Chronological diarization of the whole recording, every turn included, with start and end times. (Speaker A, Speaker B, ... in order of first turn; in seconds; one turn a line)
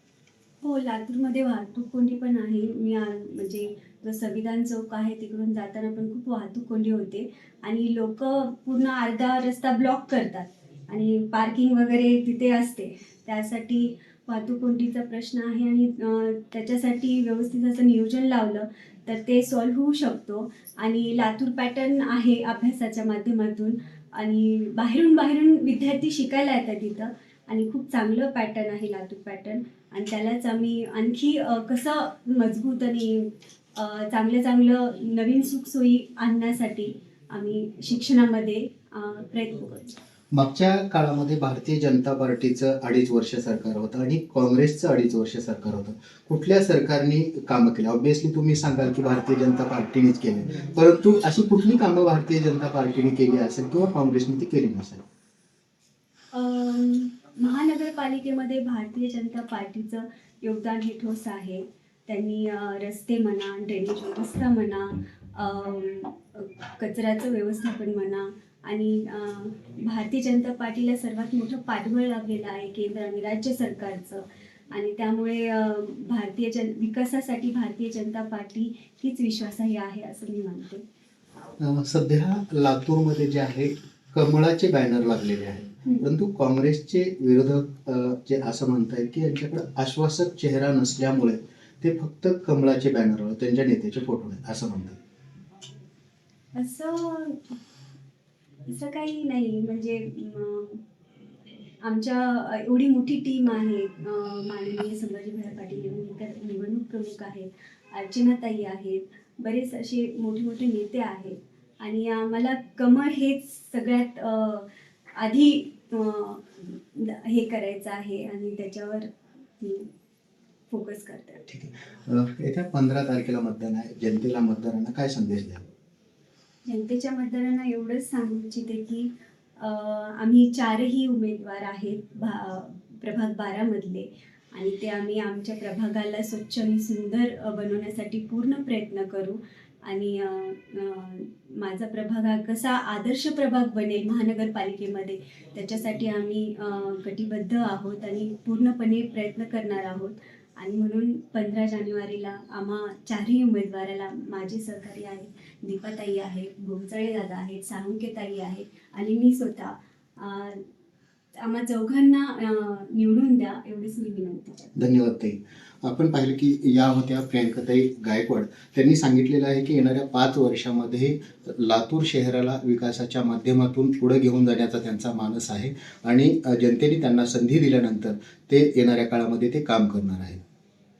Speaker A: 0.6-40.0
Speaker B: 40.3-55.0
Speaker A: 56.3-80.8
Speaker B: 81.6-95.0
Speaker A: 96.5-97.5
Speaker A: 98.7-100.8
Speaker A: 101.8-119.9
Speaker A: 120.7-121.4
Speaker B: 121.5-125.7
Speaker A: 126.7-160.6
Speaker A: 161.4-164.7
Speaker B: 164.8-180.4